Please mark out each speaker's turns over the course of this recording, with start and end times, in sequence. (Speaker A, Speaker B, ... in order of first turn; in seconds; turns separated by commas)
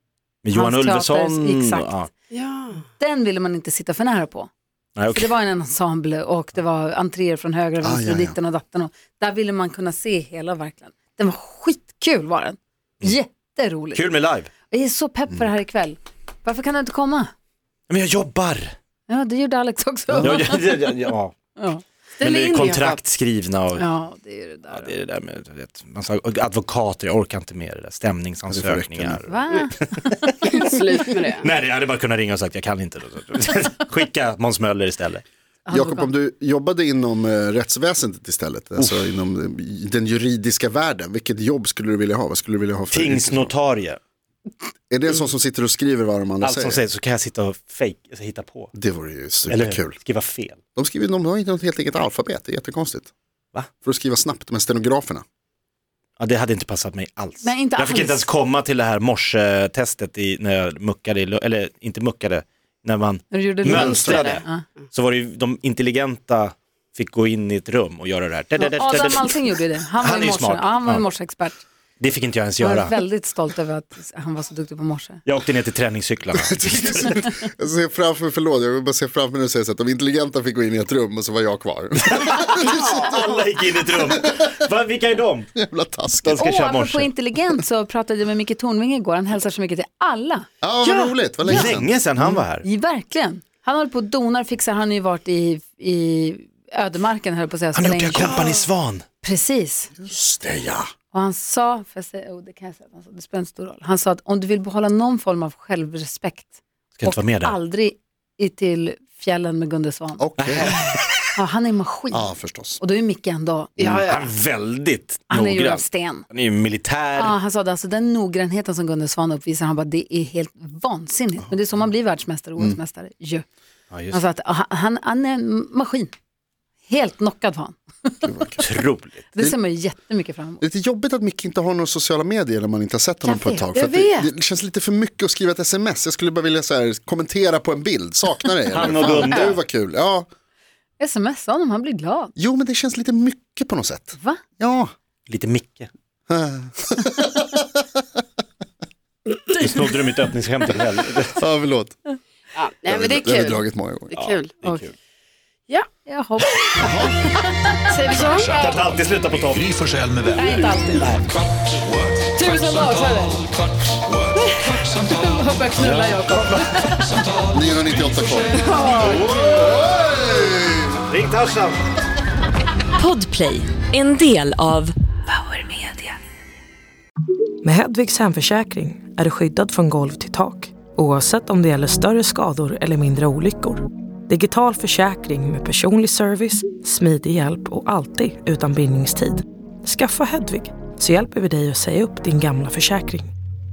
Speaker A: 0.4-2.1, Speaker B: 0.5-2.0, Speaker C: 2.3-2.8, Speaker B: 2.9-4.5, Speaker A: 5.0-5.3, Speaker B: 5.1-14.0, Speaker D: 7.8-8.3, Speaker A: 13.9-14.5, Speaker B: 14.7-17.3, Speaker A: 17.9-18.7, Speaker B: 19.1-20.9, Speaker D: 20.1-20.4, Speaker A: 20.2-21.3, Speaker B: 21.6-21.8, Speaker C: 22.2-23.0, Speaker A: 22.2-23.8, Speaker B: 23.8-24.9, Speaker A: 24.7-29.3, Speaker D: 28.5-29.2, Speaker B: 29.2-30.8, Speaker C: 30.4-31.5, Speaker A: 31.3-35.2, Speaker B: 35.6-36.1, Speaker D: 35.7-43.5, Speaker A: 42.9-44.0, Speaker D: 44.9-46.8, Speaker A: 46.4-48.7, Speaker D: 48.7-50.0, Speaker A: 49.5-50.6, Speaker D: 50.8-53.1, Speaker D: 53.8-55.2, Speaker A: 56.2-69.4, Speaker B: 57.4-58.3, Speaker B: 63.3-64.6, Speaker D: 63.7-64.0, Speaker C: 63.7-64.4, Speaker B: 68.6-71.6, Speaker A: 70.0-71.0, Speaker A: 72.0-72.9, Speaker B: 72.6-75.2, Speaker A: 75.2-77.3, Speaker D: 76.3-83.2, Speaker A: 82.1-85.5, Speaker C: 82.6-83.2, Speaker D: 85.5-86.4, Speaker A: 86.2-87.1, Speaker B: 86.3-90.5, Speaker D: 90.6-92.0, Speaker C: 90.8-91.1, Speaker A: 91.4-92.6, Speaker B: 91.5-98.6, Speaker A: 97.7-99.0, Speaker B: 99.2-99.9, Speaker D: 100.0-100.9, Speaker B: 101.1-110.2, Speaker A: 107.0-107.5, Speaker D: 110.2-110.8, Speaker A: 110.4-111.3, Speaker B: 111.3-113.7, Speaker D: 112.1-112.8, Speaker C: 113.8-114.3, Speaker A: 113.8-117.3, Speaker B: 115.3-116.2, Speaker B: 117.2-123.4, Speaker A: 123.9-124.2, Speaker B: 124.1-126.1, Speaker B: 126.9-128.3, Speaker D: 128.2-128.6, Speaker A: 128.6-129.2, Speaker B: 129.3-130.6, Speaker D: 130.6-140.3, Speaker B: 133.2-133.7, Speaker C: 133.7-134.3, Speaker A: 138.7-139.6, Speaker B: 141.0-142.3, Speaker D: 142.3-144.9, Speaker B: 144.1-144.4, Speaker A: 145.3-145.9, Speaker D: 146.3-147.8, Speaker C: 149.3-149.6, Speaker A: 149.5-151.4, Speaker D: 151.4-151.9, Speaker C: 152.5-154.5, Speaker D: 152.9-154.1, Speaker A: 154.1-154.9, Speaker B: 156.1-157.9, Speaker D: 156.8-157.2, Speaker C: 157.9-158.8, Speaker E: 158.1-160.7, Speaker A: 158.6-159.7, Speaker B: 160.3-161.2, Speaker B: 162.3-163.5, Speaker B: 164.3-167.2, Speaker A: 165.8-166.6, Speaker D: 167.5-168.6, Speaker B: 168.6-169.2, Speaker A: 168.8-169.9, Speaker D: 169.5-171.0, Speaker A: 171.1-171.8, Speaker F: 173.0-174.9, Speaker G: 177.6-193.3